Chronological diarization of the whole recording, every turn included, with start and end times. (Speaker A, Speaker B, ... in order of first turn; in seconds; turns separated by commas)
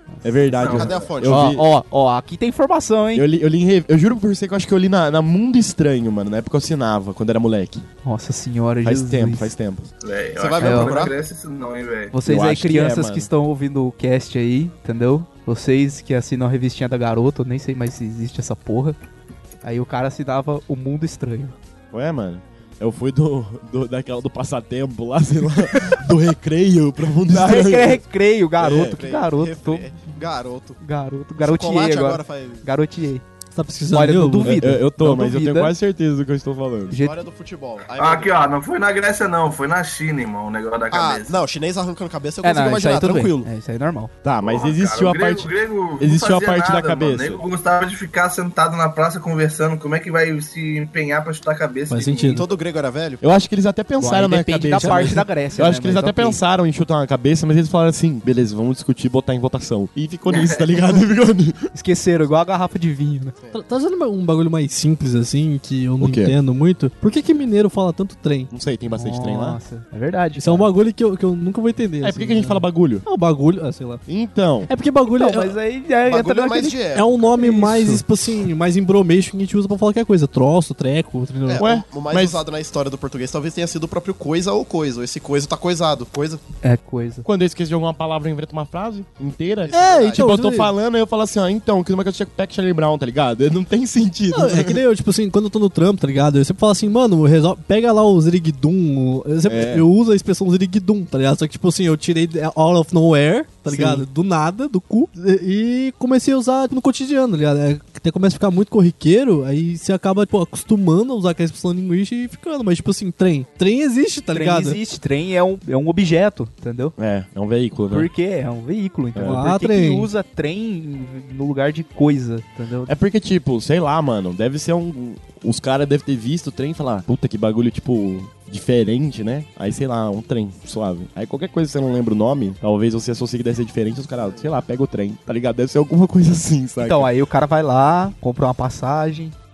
Speaker A: 0.2-1.6, Speaker B: 0.6-1.1, Speaker C: 0.6-1.5, Speaker D: 1.3-3.3, Speaker A: 3.1-7.8, Speaker D: 8.0-9.5, Speaker A: 8.8-9.9, Speaker B: 10.0-12.1, Speaker C: 10.4-11.2, Speaker D: 10.6-11.0, Speaker D: 12.1-19.0, Speaker A: 12.2-13.3, Speaker D: 19.6-21.6, Speaker A: 21.9-28.0, Speaker D: 25.7-26.0, Speaker D: 27.3-29.9, Speaker A: 28.6-29.0, Speaker C: 28.9-30.8, Speaker D: 30.8-33.2, Speaker C: 31.4-32.6, Speaker E: 33.5-34.8, Speaker D: 33.9-35.7, Speaker A: 34.4-37.0, Speaker D: 36.9-37.2, Speaker C: 36.9-38.3, Speaker B: 38.0-41.4, Speaker C: 40.9-43.5, Speaker D: 42.4-44.1, Speaker A: 44.2-47.5, Speaker B: 44.4-52.5, Speaker E: 51.9-52.5, Speaker C: 52.3-53.2, Speaker A: 53.2-61.7, Speaker D: 54.0-56.4, Speaker E: 54.8-55.3, Speaker B: 60.3-60.6, Speaker D: 61.8-63.3, Speaker E: 63.5-68.5, Speaker A: 66.0-66.3, Speaker A: 68.5-69.6, Speaker D: 69.0-70.7, Speaker E: 70.4-74.0, Speaker A: 72.0-73.0, Speaker A: 74.1-74.7, Speaker E: 74.7-75.5, Speaker D: 75.2-78.0, Speaker C: 76.1-77.2, Speaker E: 77.0-81.7, Speaker C: 81.5-86.4, Speaker A: 81.6-82.4, Speaker D: 86.6-87.2, Speaker A: 87.2-94.8, Speaker C: 89.7-90.4, Speaker E: 89.7-90.7, Speaker E: 94.3-114.8, Speaker A: 99.5-99.9, Speaker A: 103.7-104.0, Speaker D: 114.3-116.9, Speaker A: 117.0-118.1, Speaker D: 117.9-123.0, Speaker A: 119.2-119.4, Speaker E: 119.2-120.1, Speaker A: 122.9-137.1, Speaker C: 134.2-134.5, Speaker D: 136.8-139.3